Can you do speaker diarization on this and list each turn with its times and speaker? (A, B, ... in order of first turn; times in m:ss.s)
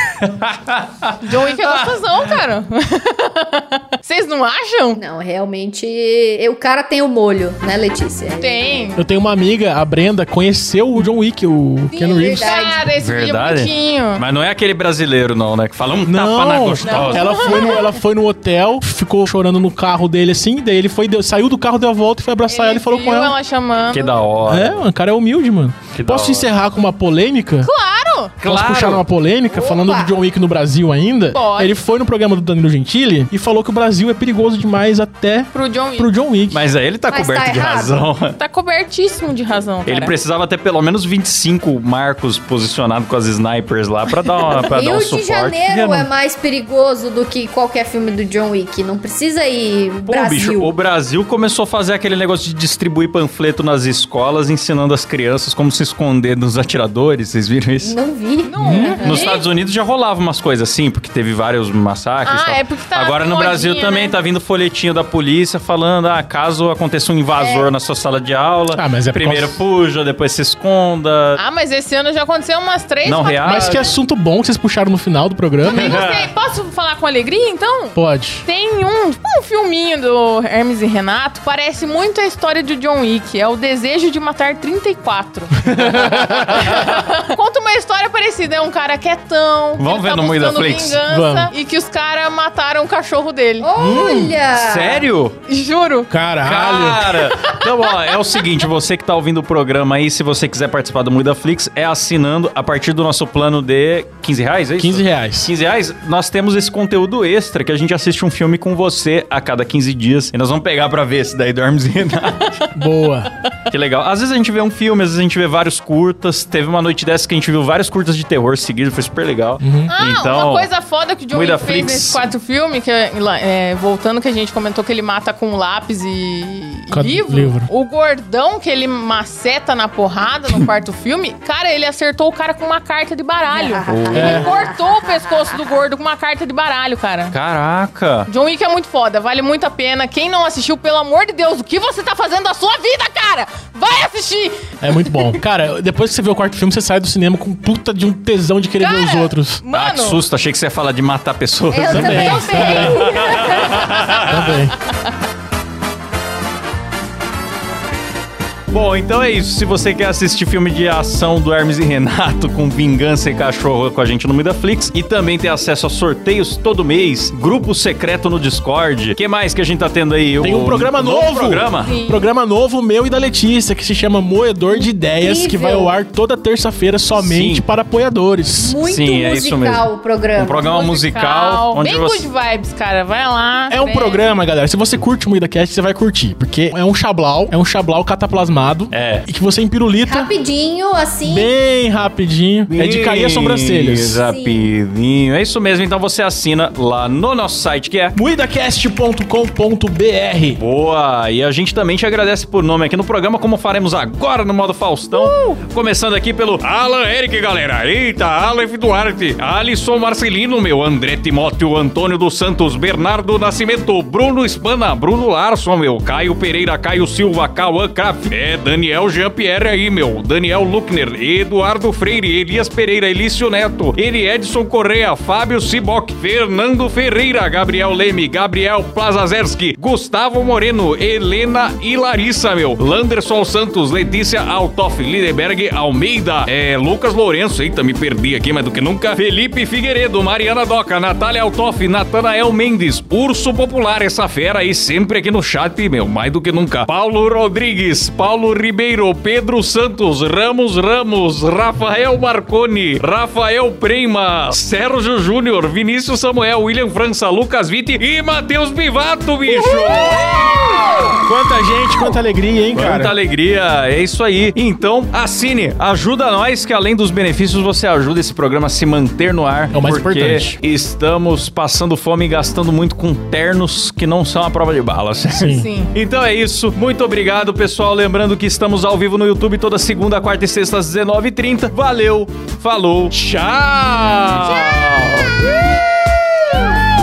0:00.2-0:02.1 A
0:01.2-0:05.0 B
0:05.0-0:08.9 C
0:08.4-0:09.0 B
0:09.0-0:12.6 D
0:11.9-0:14.2 B
0:12.0-0:12.9 C
0:13.0-0:17.6 A
0:16.1-0:23.4 D
0:16.9-0:17.9 B
0:17.5-0:17.8 C
0:22.5-0:24.2 B
0:23.9-0:24.8 A
0:24.5-0:27.7 D
0:26.0-0:26.5 A
0:27.6-0:28.4 B
0:28.4-0:29.0 A
0:28.4-0:36.6 D
0:29.5-0:30.2 C
0:31.3-0:31.8 B
0:35.5-0:36.1 B
0:36.5-0:38.4 A
0:37.1-0:38.0 C
0:38.4-0:40.1 B
0:39.9-0:46.1 A
0:44.5-0:50.7 C
0:50.1-0:58.0 A
0:57.8-0:59.3 C
0:58.4-0:59.4 B
0:58.6-0:59.0 D
0:59.0-1:11.4 A
1:02.2-1:04.2 B
1:07.4-1:07.7 C
1:08.8-1:09.6 D
1:11.4-1:14.0 B
1:13.0-1:13.8 A
1:13.4-1:16.0 D
1:15.6-1:33.7 B
1:15.7-1:16.3 A
1:18.0-1:18.4 D
1:25.6-1:26.7 D
1:29.8-1:31.0 A
1:31.1-1:31.5 D
1:33.6-1:35.1 C
1:33.8-1:34.4 D
1:34.5-1:35.4 A
1:35.5-1:36.1 B
1:36.1-1:37.2 D
1:36.4-1:52.6 A
1:37.3-1:38.4 B
1:44.8-1:45.5 D
1:52.2-1:52.8 B
1:52.8-1:53.3 D
1:53.7-2:00.7 A
1:59.6-1:59.9 D
1:59.9-2:17.4 B
2:01.3-2:02.3 A
2:06.9-2:07.7 D
2:13.5-2:15.6 C
2:13.9-2:14.5 A
2:14.1-2:14.5 D
2:17.3-2:18.3 A
2:18.3-2:25.4 B
2:24.8-2:29.6 D
2:28.8-2:30.2 B
2:29.7-2:34.6 A
2:31.7-2:34.2 C
2:31.8-2:33.1 D
2:32.3-2:33.4 B
2:34.3-2:34.8 D
2:38.7-2:51.9 A
2:50.4-2:58.8 D
2:51.8-2:52.2 B
2:54.7-2:55.9 C
2:57.2-2:57.6 A
2:58.6-3:00.7 C
2:58.8-3:02.3 A
3:00.7-3:04.2 B
3:03.7-3:10.3 D
3:08.9-3:09.3 A
3:10.0-3:11.5 C
3:11.3-3:14.2 D
3:12.7-3:18.2 A
3:14.2-3:14.7 C
3:18.1-3:20.6 D
3:20.6-4:21.2 A
4:19.6-4:23.2 D
4:22.7-4:45.6 A
4:29.7-4:30.6 D
4:35.4-4:35.7 D
4:35.4-4:35.9 B
4:46.5-4:46.9 A